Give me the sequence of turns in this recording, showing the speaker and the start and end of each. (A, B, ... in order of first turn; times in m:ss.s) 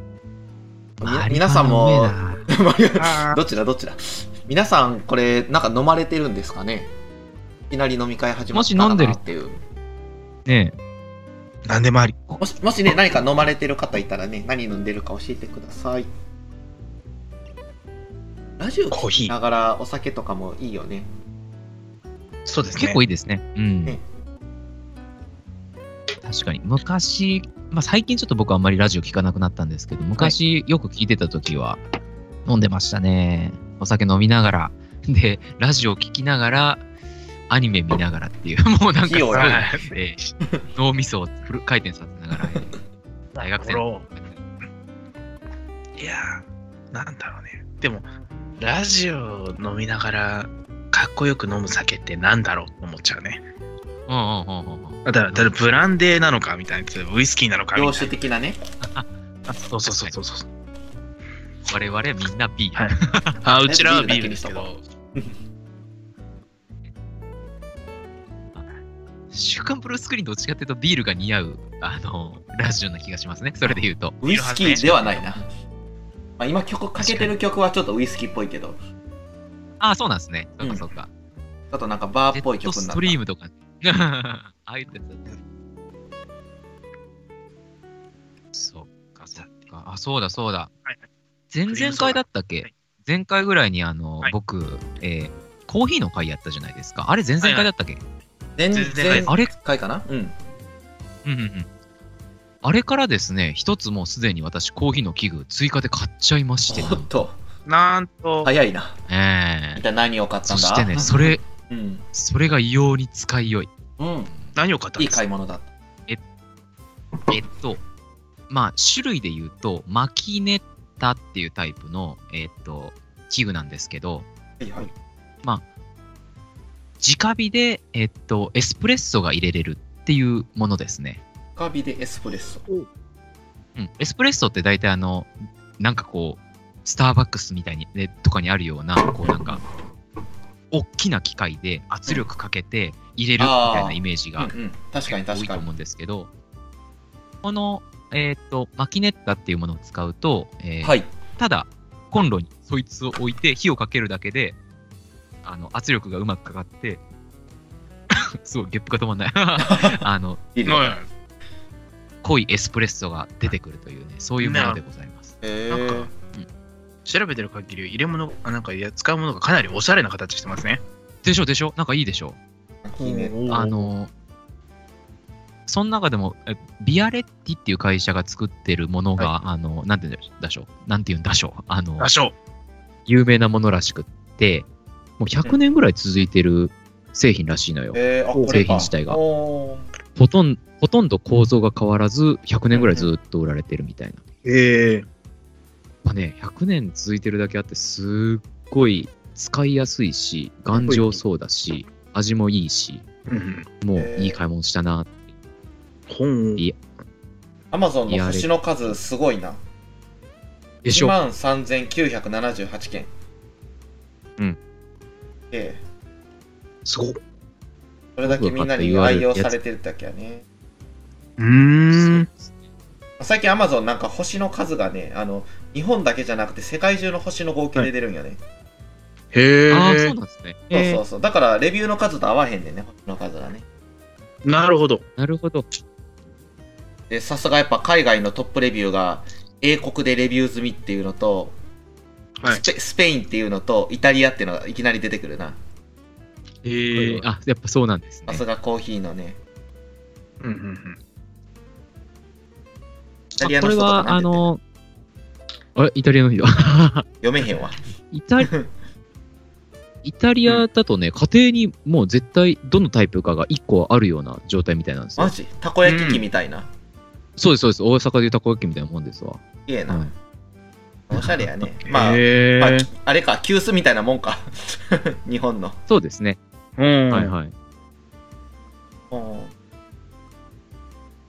0:01.0-0:02.5 A
0:01.0-0:06.9 B
0:03.0-0:03.4 C
0:07.7-0:09.6 B
0:08.5-0:09.2 A
0:10.5-0:10.7 A
0:11.7-0:12.2 C
0:12.4-0:16.1 B
0:18.6-0:21.1 B
0:18.9-0:19.3 C
0:22.5-0:23.0 C
0:22.8-0:24.0 A
0:26.2-0:31.8 A
0:32.5-0:36.8 A
0:37.5-0:40.2 A
0:39.0-0:39.7 B
0:39.3-0:40.3 C
0:40.8-0:42.8 A
0:43.3-0:44.0 C
0:43.4-0:44.4 A
0:46.0-0:48.1 C
0:48.6-0:53.4 C
0:54.1-0:55.5 A
0:55.1-0:58.1 C
0:57.7-0:58.6 B
0:58.8-0:59.1 A
0:59.5-1:00.4 C
0:59.8-1:00.2 A
1:01.7-1:03.4 A
1:02.8-1:04.8 C
1:03.6-1:05.4 B
1:09.3-1:14.2 A
1:14.2-1:15.4 B
1:14.2-1:14.9 C
1:14.8-1:15.2 A
1:16.4-1:18.8 B
1:17.0-1:17.3 A
1:19.8-1:21.1 A
1:21.7-1:23.2 B
1:22.3-1:25.4 A
1:28.5-1:30.7 A
1:31.5-1:38.0 A
1:31.7-1:32.7 C
1:37.4-1:37.7 C
1:38.6-1:40.4 B
1:38.7-1:39.3 C
1:39.3-1:39.5 A
1:41.2-1:41.7 A
1:42.6-1:47.1 A
1:46.7-1:47.4 B
1:47.7-1:48.5 C
1:48.4-1:49.0 B
1:49.1-1:49.8 A
1:49.8-1:52.0 B
1:50.5-1:51.4 A
1:52.1-1:53.7 A
1:54.0-1:54.3 B
1:54.6-1:55.2 C
1:55.0-1:55.7 B
1:57.3-1:57.8 A
1:58.5-2:04.3 A
2:04.6-2:04.9 B
2:07.0-2:11.2 A
2:11.6-2:12.6 B
2:13.8-2:19.6 A
2:20.7-2:24.5 A
2:23.4-2:25.7 B
2:25.1-2:26.3 A
2:27.4-2:34.6 A
2:30.8-2:31.1 B
2:35.4-2:37.0 A
2:38.4-2:40.4 A
2:39.6-2:40.0 B
2:40.6-2:41.0 B
2:40.7-2:41.1 C
2:42.2-2:45.3 A
2:44.4-2:44.8 C
2:45.4-2:46.1 B
2:45.7-2:46.1 C
2:47.0-2:50.8 C
2:51.2-2:52.4 A
2:52.8-2:53.4 B
2:53.0-2:53.9 C
2:53.5-2:54.1 A
2:55.7-3:02.1 A
3:02.0-3:02.3 C
3:03.1-3:04.7 A
3:05.2-3:09.2 A
3:07.9-3:09.9 B
3:08.3-3:08.6 C
3:10.2-3:14.2 A
3:14.4-3:15.1 C
3:16.0-3:23.0 A
3:20.8-3:21.2 C
3:23.3-3:23.7 C
3:23.8-3:25.2 A
3:24.0-3:24.4 B
3:26.1-3:26.6 C
3:27.7-3:29.6 B
3:28.1-3:29.0 A
3:30.8-3:31.2 A
3:30.9-3:33.1 B
3:35.5-3:35.8 B
3:36.9-3:37.2 C
3:38.2-3:40.4 B
3:38.2-3:39.6 A
3:41.4-3:42.3 C
3:41.9-3:42.6 A
3:43.2-3:48.4 B
3:49.3-3:50.1 C
3:49.7-3:51.0 A
3:50.7-3:53.6 B
3:54.4-3:55.0 C
3:55.2-3:55.7 A
3:57.1-4:01.6 B
4:02.5-4:05.6 B
4:06.6-4:07.2 C
4:06.9-4:08.4 A
4:08.3-4:09.4 B
4:10.4-4:11.0 C
4:13.4-4:14.5 B
4:13.4-4:14.6 A
4:15.8-4:17.1 A
4:17.2-4:17.8 B
4:18.1-4:18.5 A
4:18.4-4:18.7 B
4:20.0-4:25.4 A
4:25.2-4:26.7 B
4:25.8-4:26.2 C
4:27.4-4:30.1 A
4:29.7-4:30.1 B
4:31.1-4:35.8 B
4:31.9-4:32.9 C
4:35.9-4:36.4 A
4:36.8-4:37.3 C
4:37.1-4:37.5 A
4:39.1-4:39.5 B